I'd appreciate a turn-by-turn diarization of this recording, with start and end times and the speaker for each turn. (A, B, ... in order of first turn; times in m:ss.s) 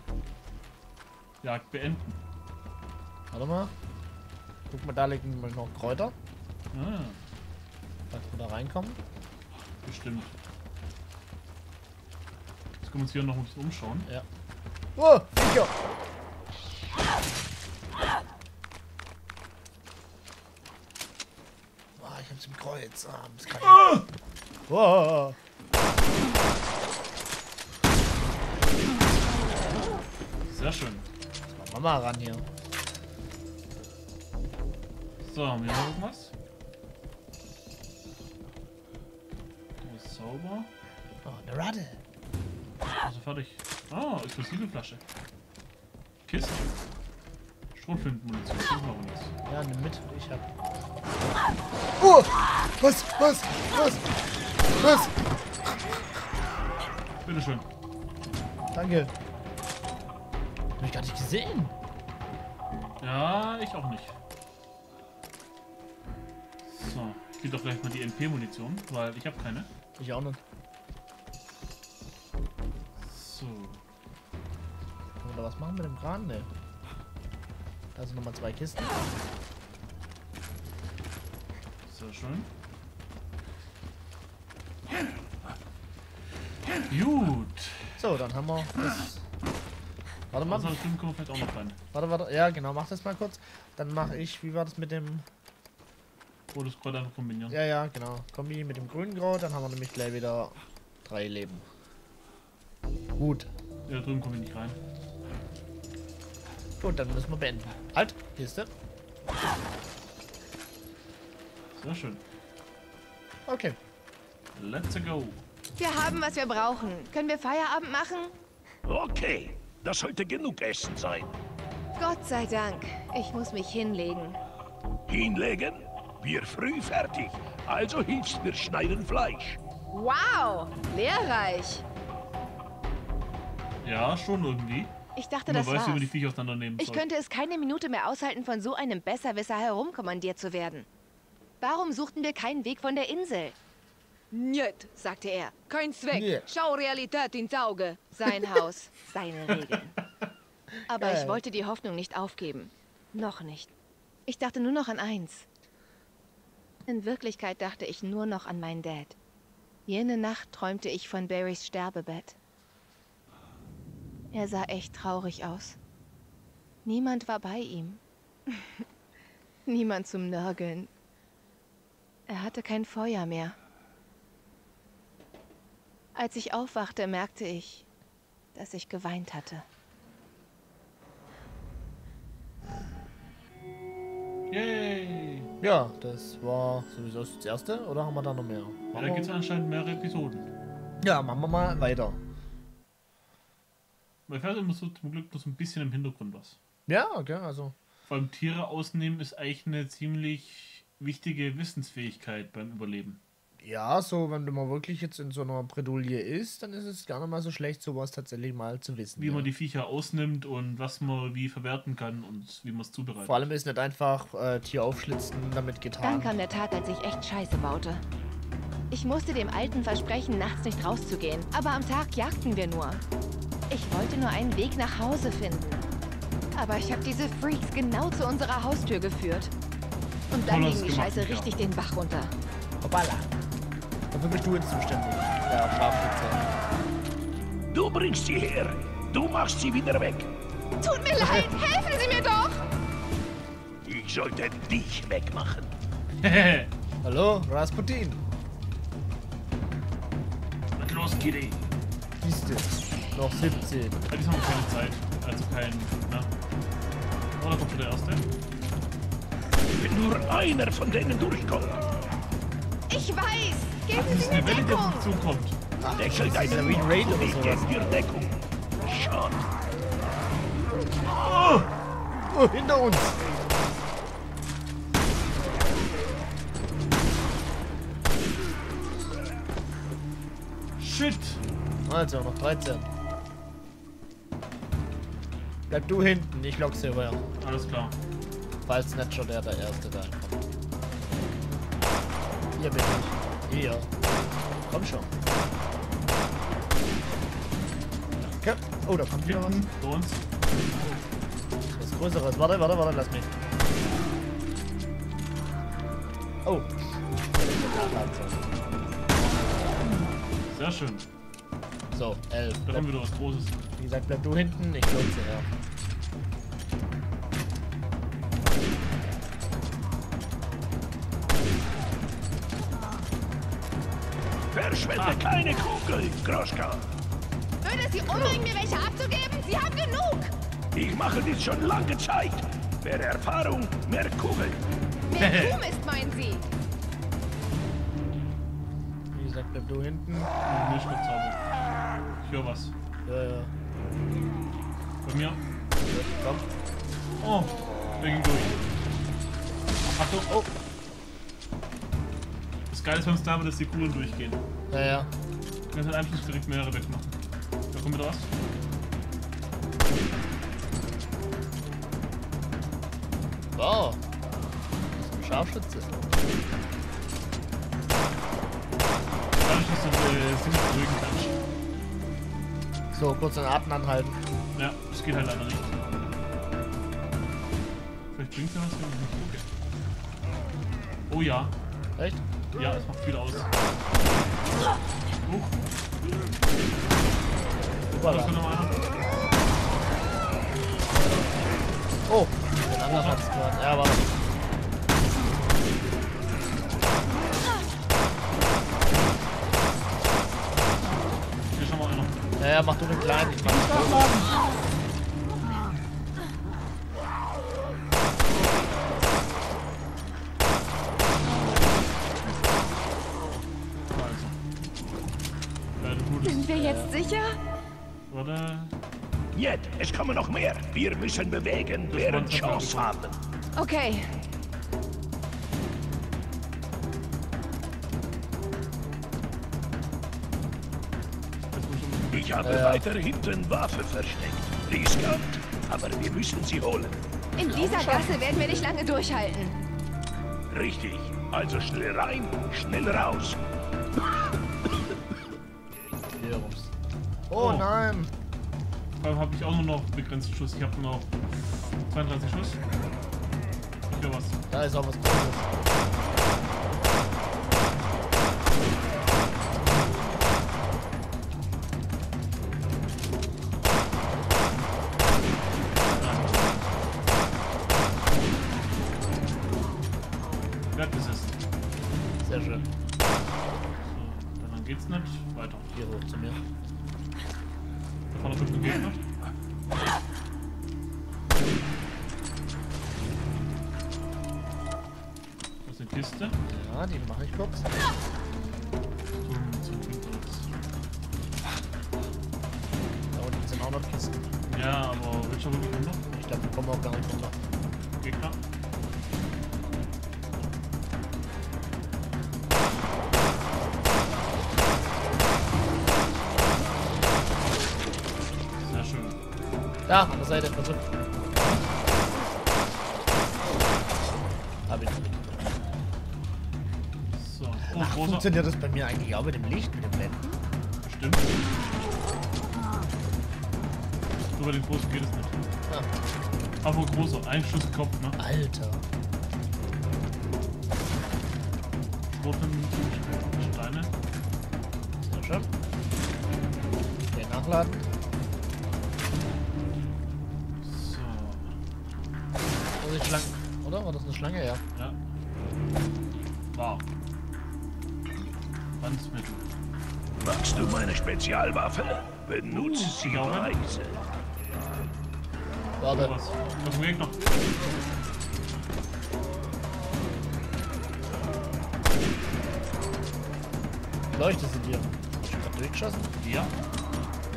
0:01.4-0:02.2 A
0:03.3-0:03.7 B
0:04.7-0:06.1 B
0:06.7-0:07.2 A
0:08.1-0:09.0 B
0:09.8-0:10.3 A
0:12.8-0:14.1 A
0:15.0-0:15.7 B
0:22.0-0:24.0 B
0:23.7-0:24.0 A
0:24.7-0:25.4 B
0:30.4-0:31.0 A
0:31.5-0:32.4 B
0:35.2-0:36.3 A
0:39.8-0:40.7 A
0:41.2-0:42.0 B
0:43.0-0:45.0 A
0:46.2-0:46.6 A
0:47.7-0:49.3 A
0:49.5-0:50.4 B
0:52.0-0:54.1 B
0:54.7-0:56.2 B
0:57.2-0:57.7 A
0:58.7-0:59.1 B
1:00.8-1:01.7 B
1:03.0-1:04.1 A
1:06.6-1:09.7 A
1:10.0-1:10.4 B
1:13.0-1:13.8 A
1:15.2-1:16.5 B
1:17.9-1:19.1 B
1:21.9-1:22.5 A
1:26.9-1:28.0 A
1:28.0-1:29.2 B
1:30.3-1:30.8 B
1:30.4-1:31.8 A
1:31.9-1:35.2 B
1:36.5-1:37.6 A
1:37.5-1:41.6 B
1:43.2-1:43.5 B
1:43.8-1:44.8 A
1:46.8-1:48.7 B
1:51.8-1:52.2 A
1:53.4-1:53.8 B
1:54.5-1:55.4 A
1:55.8-1:58.3 C
1:58.8-2:01.3 D
2:02.0-2:04.4 C
2:05.1-2:09.6 D
2:09.9-2:11.8 C
2:13.8-2:14.9 A
2:15.1-2:16.1 C
2:15.4-2:17.0 A
2:16.8-2:20.9 C
2:21.6-2:23.6 C
2:24.3-2:30.0 C
2:26.1-2:26.5 B
2:30.7-2:31.4 B
2:30.9-2:33.7 C
2:34.2-2:35.4 C
2:36.8-2:39.2 C
2:39.8-2:42.4 C
2:44.3-2:45.8 C
2:46.8-2:48.8 C
2:49.6-2:50.9 C
2:52.3-2:53.6 C
2:56.1-2:57.8 C
2:58.5-2:59.6 C
3:04.5-3:05.5 A
3:05.6-3:09.3 B
3:08.9-3:10.5 A
3:11.0-3:12.2 B
3:14.3-3:16.6 A
3:16.9-3:17.7 B
3:18.1-3:23.2 A
3:23.6-3:29.5 B
3:29.2-3:33.4 A
3:33.2-3:36.4 B
3:36.0-3:38.0 C
3:38.9-3:43.0 C
3:43.7-3:45.8 C
3:46.5-3:49.5 C
3:50.3-3:52.3 C
3:50.4-3:51.5 A
3:52.8-3:53.3 B
3:54.1-3:56.4 B
3:57.7-4:00.3 D
4:00.8-4:02.7 C
4:01.2-4:01.5 B
4:03.8-4:05.7 D
4:06.2-4:06.7 A
4:07.0-4:08.2 B
4:10.8-4:11.6 A
4:12.2-4:14.0 B
4:14.1-4:16.3 A
4:17.4-4:18.2 A
4:19.8-4:21.8 D
4:22.9-4:25.1 C
4:23.9-4:25.6 A
4:25.8-4:27.9 B
4:26.0-4:29.5 D
4:31.1-4:31.7 A
4:32.3-4:33.2 B
4:40.8-4:41.4 A
4:41.8-4:42.9 B
4:45.7-4:47.2 B
4:47.4-4:47.9 A
4:48.6-4:50.5 B
4:52.6-4:53.9 B
4:54.7-4:55.1 B
4:58.4-4:59.6 B
4:59.2-5:01.0 A
5:01.7-5:03.3 B
5:06.4-5:06.7 B
5:07.3-5:08.5 B
5:10.5-5:11.0 A
5:11.9-5:12.9 B
5:12.6-5:13.6 A
5:13.8-5:15.5 B
5:24.5-5:26.9 D
5:24.9-5:25.2 A
5:27.6-5:30.3 C
5:30.7-5:34.6 D
5:35.1-5:36.5 C
5:35.2-5:35.6 A
5:39.1-5:40.3 B
5:40.4-5:41.4 A
5:42.2-5:42.7 A
5:43.0-5:43.5 B
5:45.0-5:45.4 A
5:45.9-5:46.4 B
5:47.2-5:48.6 A
5:50.0-5:50.4 A
5:52.7-5:54.4 A
5:54.7-5:55.1 B
5:55.7-5:57.2 A
5:57.7-5:58.3 A
6:03.5-6:04.0 B
6:04.9-6:06.0 B
6:09.4-6:11.4 A
6:12.9-6:14.2 B
6:14.5-6:15.8 A
6:18.1-6:19.4 A
6:21.1-6:21.5 A
6:22.5-6:23.5 A
6:25.2-6:25.6 A
6:27.9-6:28.4 B
6:28.0-6:28.8 A
6:32.1-6:34.0 B
6:32.8-6:33.2 A
6:41.5-6:42.2 A
6:42.4-6:44.1 B
6:43.4-6:44.5 A
6:53.9-6:54.4 A
6:55.8-6:56.8 A
6:56.2-6:57.4 C
6:56.6-6:56.9 B
6:58.1-6:58.7 A
6:59.3-7:03.2 D
7:01.9-7:03.0 A
7:03.5-7:04.2 C
7:11.5-7:12.7 A
7:12.1-7:17.0 D
7:12.4-7:12.9 B
7:17.4-7:19.6 C
7:17.4-7:18.5 B
7:17.9-7:18.2 A
7:20.5-7:23.4 D
7:26.2-7:26.7 B
7:27.3-7:28.1 B
7:27.3-7:27.7 A
7:29.0-7:31.1 A
7:31.8-7:32.6 A
7:33.9-7:34.4 A
7:34.5-7:35.5 B
7:45.9-7:46.6 A
7:50.7-7:51.4 A
7:52.2-7:52.6 B
7:53.8-7:55.7 A
7:55.7-7:56.4 B
7:58.1-7:59.0 A
8:05.6-8:06.4 A
8:06.5-8:07.7 B
8:09.1-8:10.5 A
8:13.1-8:14.3 B
8:14.5-8:16.0 A
8:16.1-8:17.4 B
8:18.0-8:18.4 A
8:28.6-8:29.2 A
8:29.9-8:31.0 B
8:34.7-8:35.4 B
8:37.1-8:38.3 A
8:37.7-8:40.4 B
8:40.8-8:41.4 A
8:44.4-8:45.4 A
8:46.6-8:48.2 A
8:48.2-8:48.8 B
8:52.1-8:53.9 A
8:55.0-8:55.5 B
8:57.1-8:57.8 B
9:00.6-9:01.5 A
9:02.8-9:04.6 B
9:06.5-9:06.8 A
9:08.8-9:09.4 A
9:10.2-9:14.0 D
9:12.5-9:13.6 A
9:15.8-9:16.1 B
9:15.8-9:17.2 A
9:24.1-9:26.1 B
9:26.2-9:26.5 A